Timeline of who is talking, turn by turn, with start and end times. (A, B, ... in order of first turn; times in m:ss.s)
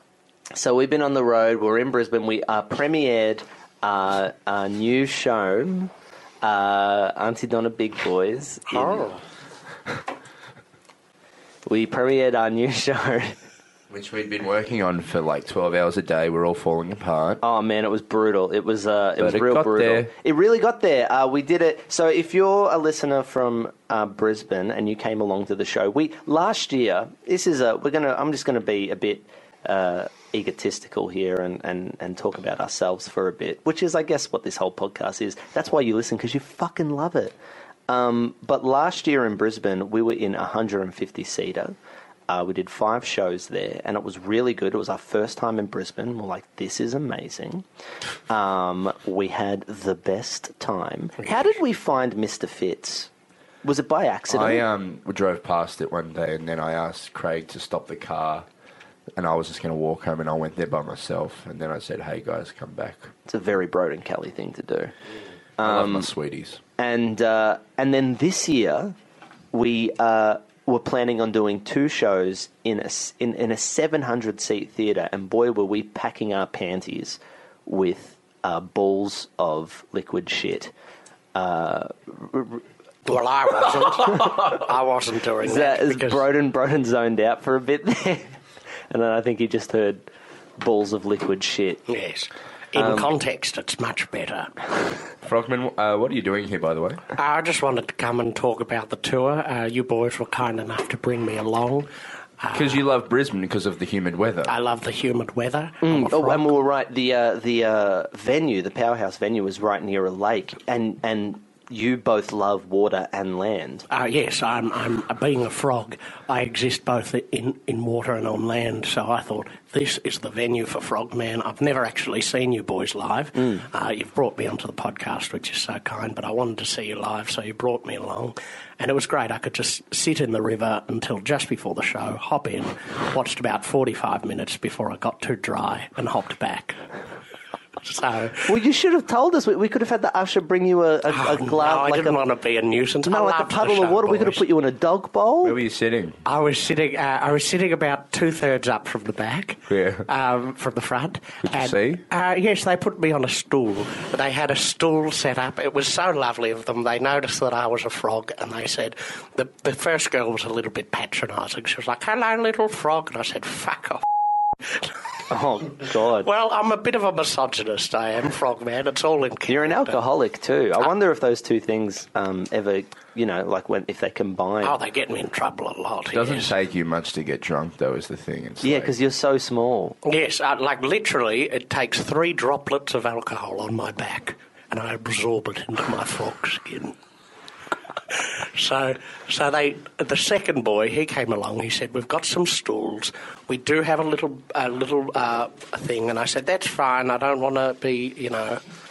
0:00.5-0:05.9 A
0:06.4-0:09.1 A
0:08.8-0:09.2 B
0:11.7-0:13.4 A
0:13.9-0:17.4 C
0:17.4-0:37.4 A
0:19.2-0:20.1 C
0:37.9-0:41.8 A
0:42.3-0:47.6 A
0:48.3-0:53.1 A
0:53.6-0:54.6 A
0:54.3-0:58.5 C
0:59.2-1:03.1 C
1:03.3-1:04.9 A
1:05.6-1:06.1 A
1:05.6-1:06.6 C
1:06.8-1:08.9 A
1:09.5-1:20.7 A
1:21.4-1:22.6 A
1:23.0-1:26.2 B
1:25.4-1:28.4 A
1:28.9-1:30.0 A
1:30.6-1:31.8 A
1:31.9-1:34.6 B
1:32.8-1:33.1 A
1:35.2-1:37.0 C
1:37.1-1:41.9 B
1:42.4-1:42.8 B
1:42.5-1:44.6 C
1:44.5-1:46.5 B
1:45.8-1:53.8 A
1:53.9-2:16.8 B
2:17.8-2:18.5 B
2:18.4-2:22.2 A
2:21.1-2:24.4 B
2:23.1-2:25.6 A
2:25.4-2:26.2 C
2:26.2-2:44.0 B
2:29.7-2:30.1 C
2:31.4-2:32.0 C
2:45.3-2:46.3 A
2:46.2-2:50.0 B
2:49.5-2:54.8 A
2:54.6-2:56.6 B
2:56.1-2:58.9 C
2:58.6-3:00.0 A
3:00.0-3:06.9 B
3:08.1-3:18.6 B